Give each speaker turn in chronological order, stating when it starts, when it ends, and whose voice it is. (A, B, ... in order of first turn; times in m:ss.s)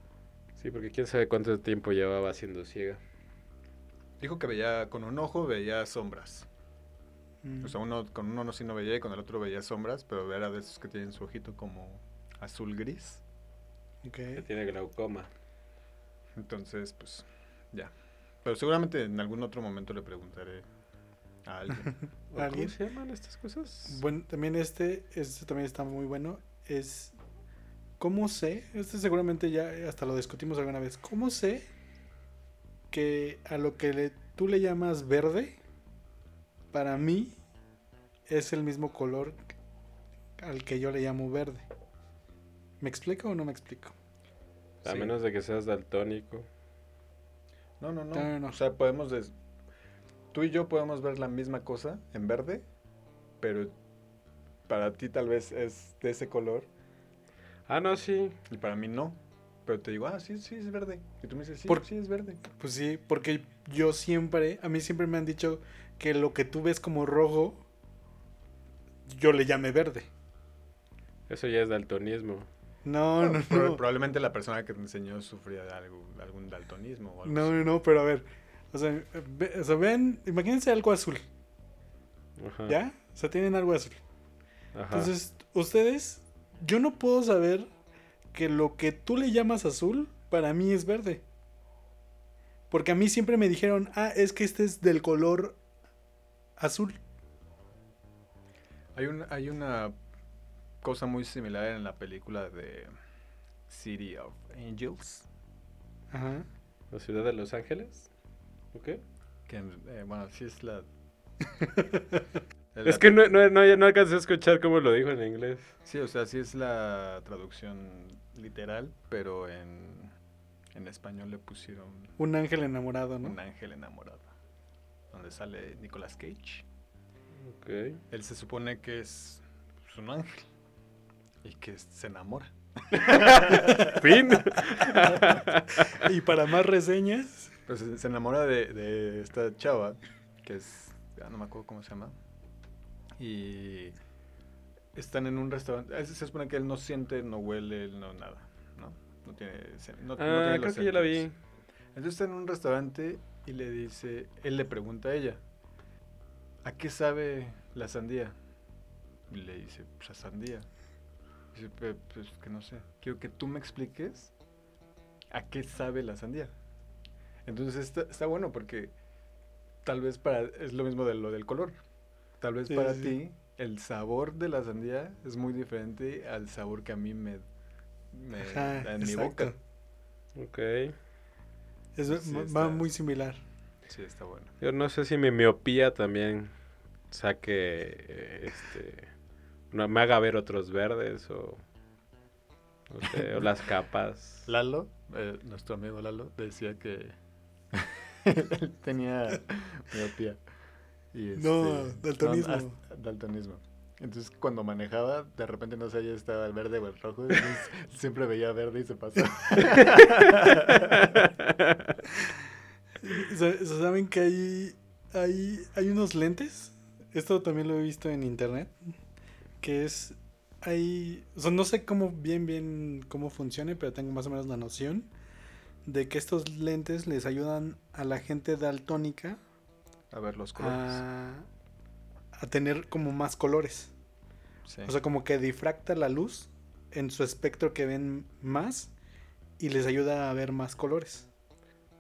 0:00.6-0:03.0 A
0:04.2-0:06.5 B
0:07.4-0:07.8 C
0:07.6-0:13.2 B
0:14.0-0:14.4 C
0:14.4-0:15.3 A
0:16.4-0:20.6 B
0:21.5-0:21.9 B
0:21.7-0:22.7 C
0:22.3-0:24.0 A
0:23.9-0:27.2 C
0:28.0-0:31.7 C
0:32.9-0:35.6 C
0:36.7-0:37.4 C
0:38.3-0:39.4 C
0:40.4-0:41.6 C
0:42.8-0:44.0 C
0:44.8-0:45.1 B
0:44.8-0:46.5 A
0:47.8-0:49.3 B
0:48.1-0:48.6 C
0:50.3-0:52.6 B
0:53.4-0:53.7 B
0:54.7-0:56.7 B
0:57.7-0:58.4 A
0:58.5-1:02.4 B
1:02.6-1:07.6 C
1:09.1-1:10.1 C
1:11.3-1:12.5 A
1:12.8-1:13.8 C
1:13.2-1:17.6 B
1:17.2-1:21.2 C
1:22.4-1:22.8 A
1:22.7-1:24.0 C
1:24.7-1:25.1 A
1:24.9-1:27.7 C
1:28.3-1:31.2 C
1:32.7-1:35.6 C
1:36.6-1:37.0 C
1:39.0-1:40.0 B
1:40.8-1:42.9 B
1:43.7-1:45.3 B
1:46.1-1:46.5 C
1:46.9-1:48.1 A
1:48.7-1:49.0 A
1:49.5-1:50.9 B
1:51.6-1:52.2 C
1:52.7-1:53.4 B
1:52.8-1:55.7 A
1:55.9-2:00.1 B
2:00.7-2:02.1 B
2:02.2-2:03.4 C
2:03.2-2:04.3 B
2:05.1-2:06.6 B
2:07.4-2:08.0 A
2:08.1-2:10.5 B
2:11.4-2:14.2 B
2:13.0-2:16.1 A
2:13.5-2:14.0 C
2:15.9-2:17.5 C
2:17.7-2:22.1 B
2:23.2-2:24.0 B
2:25.0-2:31.3 B
2:30.2-2:31.4 A
2:32.0-2:35.4 B
2:36.6-2:38.4 B
2:39.3-2:40.7 B
2:41.5-2:44.3 B
2:45.3-2:46.5 B
2:47.4-2:48.9 B
2:49.8-2:51.8 B
2:52.4-2:57.4 B
2:52.7-2:53.1 C
2:58.1-2:59.5 B
2:58.4-2:59.6 C
3:00.4-3:01.0 A
3:02.0-3:03.4 C
3:02.1-3:02.9 B
3:03.9-3:04.5 B
3:04.6-3:06.5 A
3:07.1-3:09.1 A
3:09.7-3:11.6 A
3:12.9-3:14.5 A
3:14.5-3:17.2 B
3:17.7-3:20.4 B
3:21.1-3:31.1 B
3:21.4-3:22.8 C
3:29.7-3:31.9 A
3:33.0-3:38.8 C
3:39.6-3:45.1 C
3:45.9-3:49.4 C
3:50.1-3:51.0 B
3:50.6-3:51.5 C
3:52.4-3:53.9 C
3:54.6-3:54.9 B
3:54.8-3:58.9 C
3:59.6-4:01.3 C